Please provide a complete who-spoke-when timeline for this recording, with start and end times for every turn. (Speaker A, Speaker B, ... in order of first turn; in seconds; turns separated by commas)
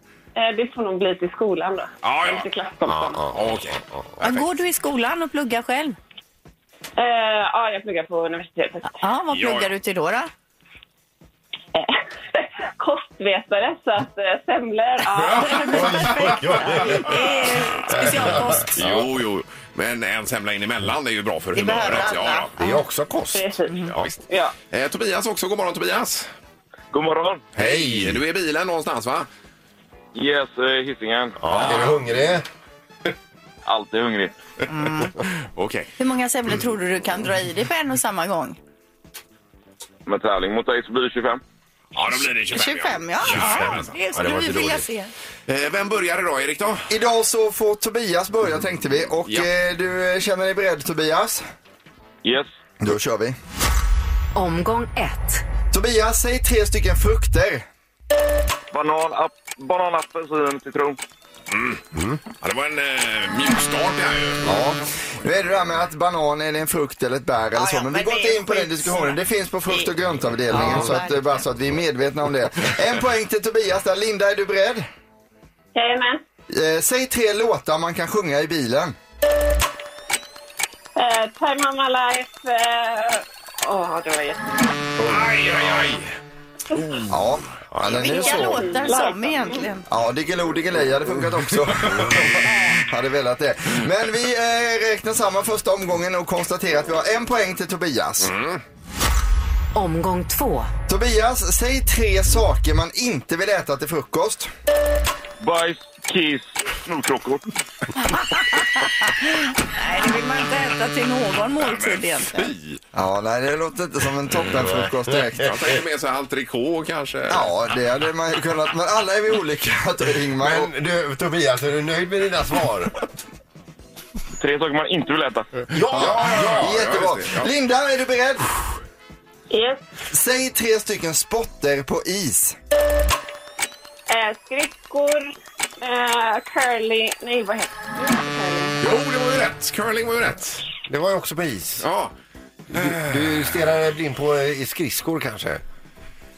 Speaker A: 0.3-3.2, Speaker B: 2.0-2.4, Speaker C: 2.8-4.2, Speaker B: 3.3-4.4, Speaker D: 4.2-6.0, Speaker A: 7.0-9.0, Speaker D: 8.8-10.3, Speaker B: 9.3-9.7, Speaker A: 11.7-16.6, Speaker B: 15.1-17.0, Speaker C: 15.7-17.1, Speaker D: 15.7-18.8, Speaker C: 17.9-19.1, Speaker B: 18.3-22.5, Speaker D: 21.6-22.8, Speaker C: 22.6-24.1, Speaker A: 23.3-24.5, Speaker B: 24.7-26.3, Speaker E: 26.9-27.5, Speaker C: 27.6-28.2, Speaker B: 27.6-29.3, Speaker E: 30.1-31.4, Speaker C: 31.4-32.4, Speaker B: 31.5-32.0, Speaker E: 33.6-34.3, Speaker D: 34.7-35.1, Speaker B: 35.5-35.9, Speaker D: 36.0-38.6, Speaker E: 40.0-41.4, Speaker B: 41.9-43.9, Speaker D: 42.5-45.1, Speaker C: 43.3-44.8, Speaker B: 45.5-46.9, Speaker F: 46.9-51.4, Speaker E: 52.2-52.5, Speaker F: 52.8-53.4, Speaker G: 54.3-55.4, Speaker F: 55.7-57.6, Speaker E: 58.7-61.0, Speaker B: 61.5-61.8, Speaker C: 61.9-62.2, Speaker B: 62.4-64.5, Speaker F: 64.4-74.8, Speaker D: 67.5-69.2, Speaker D: 70.5-71.2, Speaker C: 70.5-71.0, Speaker A: 75.7-76.2, Speaker F: 76.5-78.9, Speaker A: 81.0-84.7, Speaker C: 85.0-85.9, Speaker B: 85.0-86.1, Speaker F: 87.1-88.7, Speaker C: 87.7-88.5, Speaker D: 87.9-89.8, Speaker A: 88.0-89.6, Speaker F: 89.9-98.3, Speaker C: 91.8-92.4, Speaker B: 98.2-98.6, Speaker G: 99.7-100.7, Speaker F: 100.9-104.5, Speaker E: 105.4-107.4, Speaker D: 108.0-112.5, Speaker B: 111.6-112.8, Speaker F: 112.9-115.5, Speaker C: 114.5-115.8, Speaker B: 115.4-117.5, Speaker F: 117.3-120.7, Speaker C: 120.4-122.9, Speaker E: 124.4-125.7, Speaker C: 125.7-126.8, Speaker B: 125.9-127.5, Speaker F: 125.9-128.5, Speaker A: 129.5-129.8, Speaker F: 130.1-132.6, Speaker A: 134.1-135.3, Speaker A: 135.8-138.7, Speaker B: 138.8-140.6, Speaker C: 140.9-141.9, Speaker B: 141.8-142.1, Speaker C: 142.7-145.6, Speaker B: 142.7-143.6